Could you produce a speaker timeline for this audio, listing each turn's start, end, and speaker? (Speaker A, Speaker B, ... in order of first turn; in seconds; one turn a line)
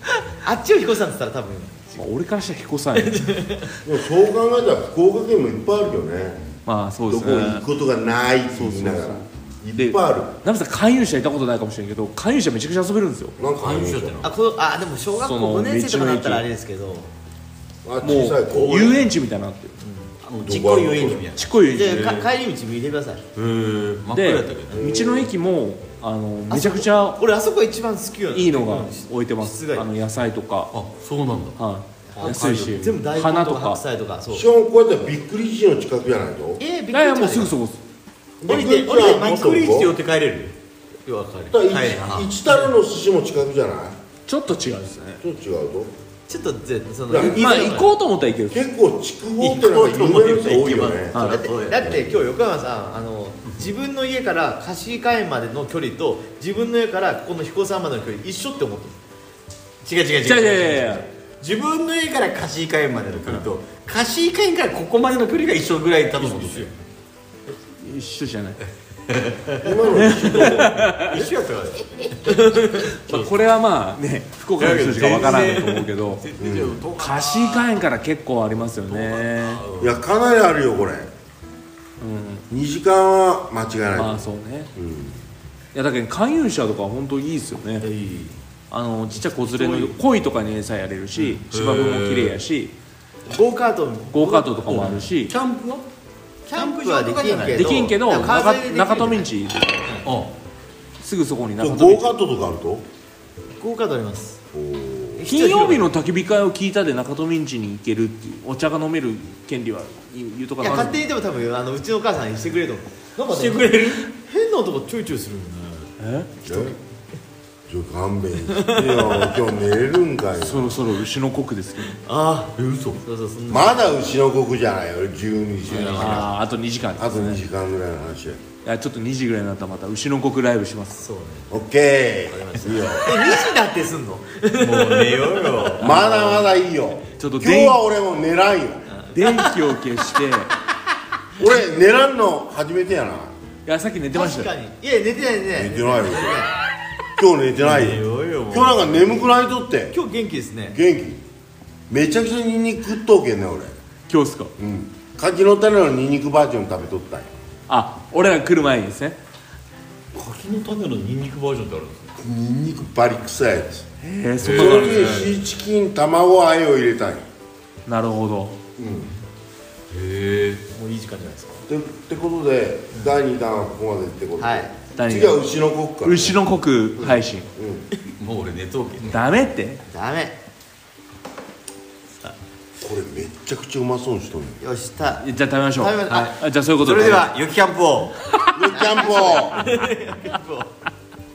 Speaker A: 0.4-2.1
Speaker B: 2.0-3.2
Speaker A: 3.0-3.8
Speaker C: 3.8-6.4
Speaker B: 6.7-7.7
Speaker C: 7.1-10.3
Speaker B: 8.5-13.4
Speaker C: 13.4-14.3
Speaker D: 13.6-14.3
Speaker A: 14.2-17.1
Speaker B: 15.2-16.4
Speaker C: 17.8-18.9
Speaker B: 18.0-19.8
Speaker D: 18.5-19.0
Speaker A: 19.8-20.1
Speaker D: 20.2-22.3
Speaker C: 20.4-21.3
Speaker B: 21.4-22.2
Speaker A: 21.7-23.2
Speaker D: 23.4-24.8
Speaker B: 24.1-27.2
Speaker C: 24.7-25.3
Speaker A: 26.5-29.9
Speaker B: 28.3-30.7
Speaker D: 30.7-31.6
Speaker B: 31.6-33.8
Speaker A: 32.1-34.5
Speaker D: 32.1-32.5
Speaker C: 34.3-36.6
Speaker A: 36.6-37.5
Speaker B: 36.9-37.8
Speaker C: 38.4-39.9
Speaker A: 38.5-39.5
Speaker D: 38.5-40.5
Speaker A: 41.0-41.5
Speaker C: 41.5-44.0
Speaker D: 41.7-42.3
Speaker B: 44.3-45.2
Speaker C: 45.2-45.9
Speaker A: 46.3-47.9
Speaker C: 47.1-47.5
Speaker B: 47.1-48.6
Speaker C: 48.5-52.1
Speaker D: 49.4-51.9
Speaker B: 51.1-51.4
Speaker A: 51.2-59.0
Speaker D: 59.8-66.7
Speaker B: 60.2-61.1
Speaker B: 66.2-66.7
Speaker B: 67.5-68.6
Speaker D: 69.1-72.4
Speaker C: 69.6-70.9
Speaker B: 69.9-71.2
Speaker B: 72.7-76.2
Speaker D: 74.6-77.7
Speaker C: 76.4-76.8
Speaker B: 77.0-79.6
Speaker D: 78.9-80.0
Speaker C: 79.8-81.1
Speaker B: 82.0-82.4
Speaker C: 82.5-85.2
Speaker B: 83.9-84.7
Speaker B: 85.7-87.9
Speaker D: 87.8-88.4
Speaker B: 88.7-92.7
Speaker D: 89.3-89.9
Speaker D: 91.2-92.4
Speaker A: 93.3-95.0
Speaker B: 94.1-95.3
Speaker D: 94.7-95.8
Speaker A: 96.5-99.3
Speaker D: 96.5-97.9
Speaker B: 97.5-99.8
Speaker D: 100.0-100.3
Speaker B: 101.0-102.1
Speaker C: 101.6-102.8
Speaker A: 103.6-104.4
Speaker C: 104.5-105.3
Speaker A: 105.2-105.9
Speaker B: 105.2-111.0
Speaker A: 110.6-115.9
Speaker D: 113.2-114.1
Speaker B: 116.0-116.5
Speaker C: 116.4-116.8
Speaker C: 117.7-120.8
Speaker A: 118.5-119.4
Speaker B: 120.4-122.0
Speaker A: 122.0-124.0
Speaker D: 122.5-123.0
Speaker C: 123.5-126.3
Speaker D: 125.7-126.3
Speaker B: 125.9-127.4
Speaker C: 127.0-128.4
Speaker B: 128.6-130.9
Speaker A: 131.0-131.5
Speaker C: 131.5-133.3
Speaker A: 132.3-135.8
Speaker D: 134.6-135.9
Speaker C: 135.8-138.8
Speaker B: 135.8-136.5
Speaker B: 137.2-137.8
Speaker A: 138.9-139.7
Speaker B: 139.1-140.5
Speaker C: 141.3-143.3
Speaker B: 143.6-144.5
Speaker A: 144.1-146.5
Speaker C: 145.5-146.5
Speaker C: 147.2-149.9
Speaker D: 147.6-149.2
Speaker A: 149.9-150.8
Speaker C: 150.7-151.2
Speaker C: 151.9-153.8
Speaker B: 154.1-154.5
Speaker C: 154.6-157.3
Speaker B: 157.7-159.2
Speaker D: 160.1-162.1
Speaker C: 162.2-163.8
Speaker B: 164.0-165.3
Speaker D: 164.4-165.3
Speaker C: 164.5-167.2
Speaker B: 167.8-168.6
Speaker C: 168.8-169.1
Speaker D: 169.9-170.6
Speaker A: 170.7-171.6
Speaker C: 171.7-176.4
Speaker A: 174.4-174.7
Speaker B: 174.9-175.4
Speaker B: 176.0-177.5
Speaker C: 177.0-177.9
Speaker D: 178.2-179.2
Speaker B: 179.0-179.8
Speaker A: 179.9-180.4
Speaker C: 182.8-184.6
Speaker A: 184.6-187.3
Speaker B: 185.2-187.3
Speaker D: 186.1-188.2
Speaker C: 188.5-189.6
Speaker A: 188.7-190.7